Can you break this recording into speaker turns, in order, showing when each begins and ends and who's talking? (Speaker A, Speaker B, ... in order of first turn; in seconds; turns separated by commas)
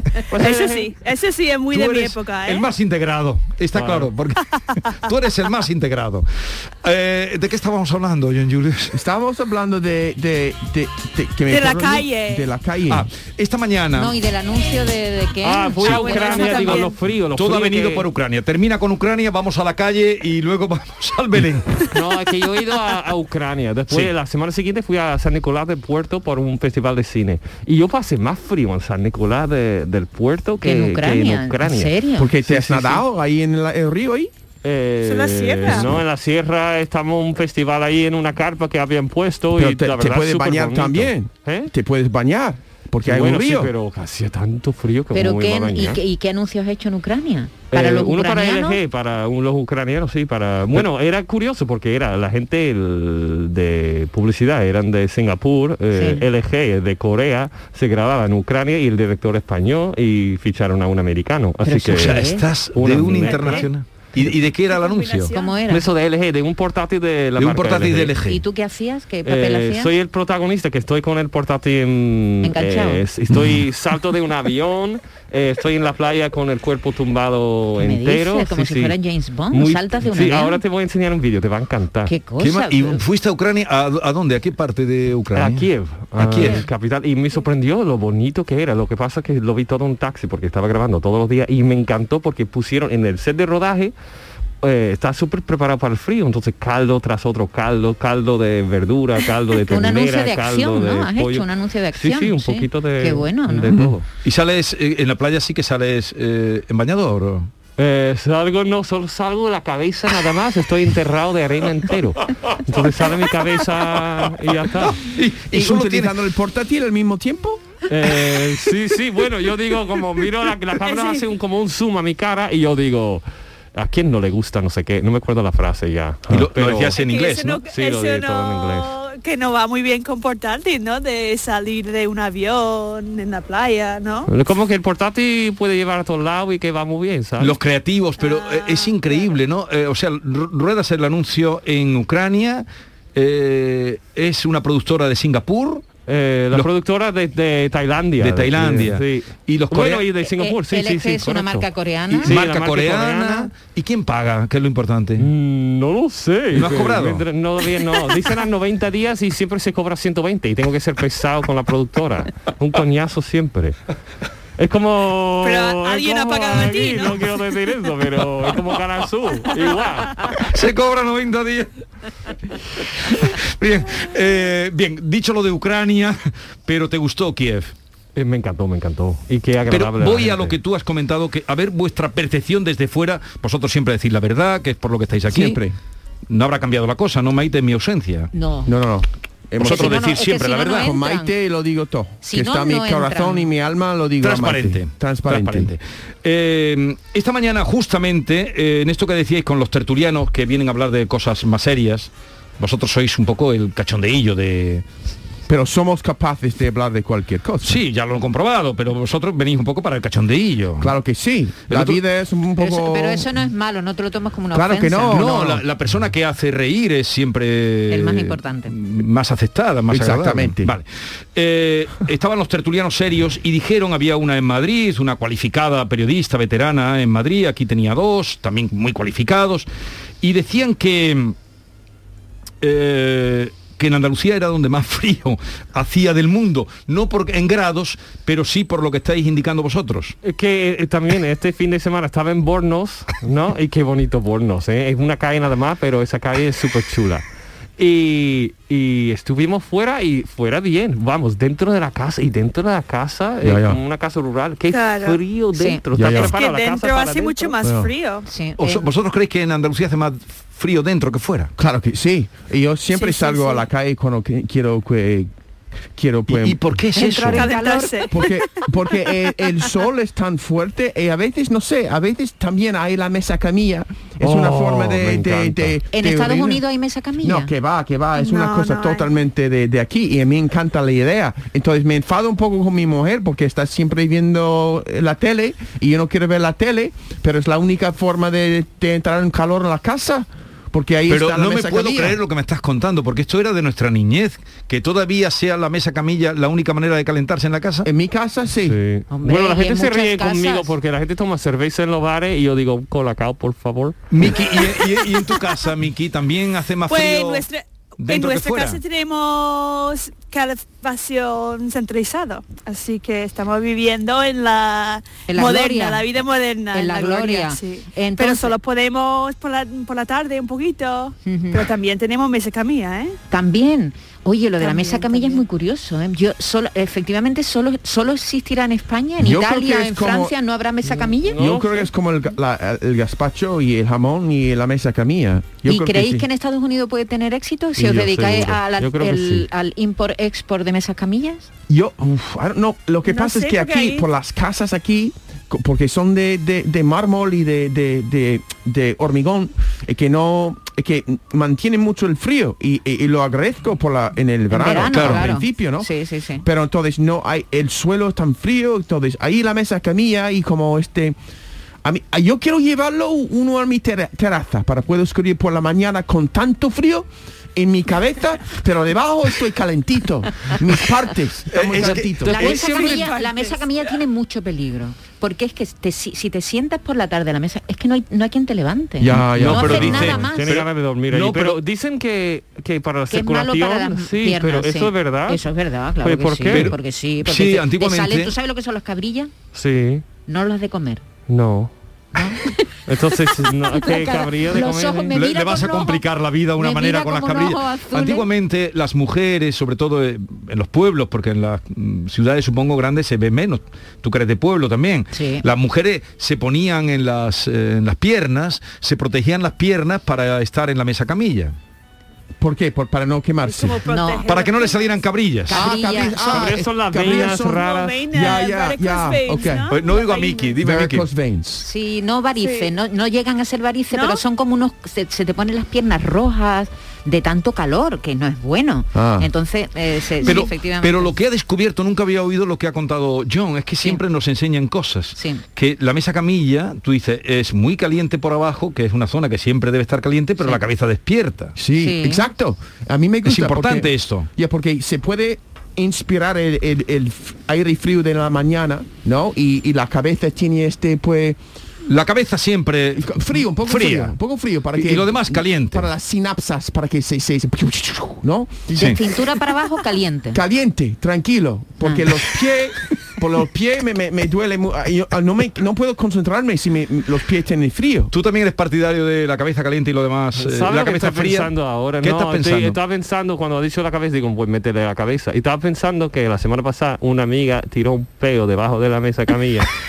Speaker A: 0.3-0.9, Speaker B: 0.3-2.7, Speaker C: 1.7-6.3, Speaker A: 3.7-4.1, Speaker C: 6.8-9.0, Speaker D: 8.9-13.1, Speaker B: 11.5-12.5, Speaker C: 12.9-14.2, Speaker E: 14.0-16.9, Speaker A: 15.4-18.1, Speaker C: 15.8-16.8, Speaker B: 16.0-16.6, Speaker C: 17.4-21.8, Speaker A: 21.9-31.9, Speaker E: 30.6-32.4, Speaker D: 32.2-34.3, Speaker A: 32.5-33.0, Speaker A: 34.6-41.7, Speaker B: 35.0-35.9, Speaker D: 39.5-43.7, Speaker A: 43.0-46.0, Speaker E: 45.1-48.8, Speaker A: 47.7-63.7, Speaker E: 55.9-56.2, Speaker E: 61.6-62.5, Speaker C: 61.9-65.3, Speaker B: 63.2-63.7, Speaker B: 64.7-65.6, Speaker E: 65.3-65.9, Speaker A: 65.7-68.1, Speaker C: 67.4-68.4, Speaker E: 68.3-69.9, Speaker A: 69.2-79.0, Speaker E: 72.4-73.0, Speaker E: 77.8-80.6, Speaker A: 79.5-82.1, Speaker E: 82.1-83.0, Speaker C: 82.4-86.7, Speaker A: 85.3-93.9, Speaker E: 86.4-86.7, Speaker A: 94.6-104.1, Speaker E: 99.7-103.8, Speaker C: 104.2-107.5, Speaker A: 107.8-115.0, Speaker C: 114.8-116.2, Speaker D: 115.5-117.6, Speaker A: 117.9-127.0, Speaker B: 120.8-121.2, Speaker C: 126.3-127.6, Speaker B: 126.9-134.3, Speaker A: 127.7-128.9, Speaker A: 134.3-137.6, Speaker C: 137.4-145.8, Speaker B: 138.2-139.3, Speaker A: 146.1-151.7, Speaker C: 148.2-150.1, Speaker E: 150.3-152.3, Speaker C: 152.1-155.3, Speaker A: 152.2-153.5, Speaker A: 155.2-163.8, Speaker C: 156.5-157.2, Speaker A: 164.6-170.3, Speaker B: 165.4-167.3, Speaker C: 170.4-171.7, Speaker C: 173.0-177.7, Speaker A: 178.2-180.6, Speaker C: 179.7-185.7, Speaker D: 185.3-185.8, Speaker C: 186.3-188.3, Speaker E: 188.3-188.8, Speaker D: 188.7-190.1, Speaker C: 189.6-190.9, Speaker E: 189.6-191.3, Speaker D: 190.7-195.7, Speaker E: 192.2-193.5, Speaker C: 194.2-204.8, Speaker D: 205.5-207.8, Speaker C: 207.6-210.9, Speaker D: 210.8-213.3, Speaker C: 211.7-212.0, Speaker E: 212.6-215.3, Speaker D: 214.5-215.6, Speaker C: 215.1-229.7, Speaker E: 217.9-218.7, Speaker D: 219.9-220.7, Speaker C: 230.2-231.3, Speaker C: 232.6-240.2, Speaker A: 240.2-247.2, Speaker A: 247.8-257.6, Speaker D: 253.4-253.8, Speaker B: 254.7-255.2, Speaker E: 255.5-255.8, Speaker D: 255.9-256.3, Speaker B: 256.1-258.3, Speaker D: 257.6-257.9, Speaker E: 258.3-258.9, Speaker C: 258.6-261.5, Speaker D: 261.6-265.3, Speaker B: 262.9-263.6, Speaker D: 265.9-266.6, Speaker C: 266.3-267.6, Speaker E: 266.9-268.1, Speaker B: 267.3-268.4, Speaker D: 268.1-276.6, Speaker A: 274.2-275.8, Speaker E: 275.9-277.5, Speaker D: 277.2-292.2, Speaker B: 278.2-279.1, Speaker C: 291.1-297.9, Speaker D: 297.8-298.8, Speaker A: 298.6-304.0, Speaker E: 299.1-300.7, Speaker C: 304.1-307.4, Speaker B: 306.9-323.2, Speaker C: 308.0-308.8, Speaker E: 315.3-316.2, Speaker E: 316.7-318.6, Speaker E: 321.2-321.7, Speaker E: 323.3-331.4, Speaker B: 324.6-325.4, Speaker D: 329.2-330.3, Speaker A: 330.8-331.9, Speaker D: 331.4-336.3, Speaker E: 335.7-341.5, Speaker A: 337.8-339.5, Speaker D: 341.7-355.9, Speaker B: 343.1-344.1, Speaker E: 354.5-356.4, Speaker C: 354.9-355.3, Speaker D: 356.4-361.2, Speaker D: 361.8-372.6, Speaker C: 371.5-373.0, Speaker E: 372.2-380.6, Speaker B: 372.4-373.9, Speaker D: 379.0-380.0, Speaker C: 379.4-381.6, Speaker A: 379.4-385.4, Speaker E: 383.1-389.3, Speaker A: 386.0-386.7, Speaker C: 386.5-388.3, Speaker A: 389.6-390.0, Speaker E: 390.3-391.0, Speaker A: 391.3-391.7, Speaker E: 392.1-392.6, Speaker A: 392.9-395.1, Speaker E: 393.7-396.0, Speaker C: 395.1-411.6, Speaker E: 396.6-398.3, Speaker E: 405.1-405.4, Speaker D: 412.4-413.8, Speaker B: 413.4-415.0, Speaker E: 413.9-414.3, Speaker C: 414.3-415.7, Speaker E: 415.5-416.5, Speaker D: 415.5-419.7, Speaker A: 416.2-418.0, Speaker B: 417.4-420.6, Speaker C: 419.7-421.1, Speaker D: 420.6-421.7, Speaker E: 421.6-431.1, Speaker B: 422.4-422.7, Speaker B: 423.9-424.2, Speaker D: 428.9-429.3, Speaker C: 430.2-441.6, Speaker E: 435.2-435.4, Speaker D: 441.6-451.4, Speaker E: 441.8-442.3, Speaker C: 443.2-444.3, Speaker C: 451.9-454.2, Speaker D: 453.0-459.0, Speaker C: 454.8-455.9, Speaker E: 458.7-460.4, Speaker D: 460.3-468.1, Speaker C: 468.1-472.8, Speaker A: 470.4-479.7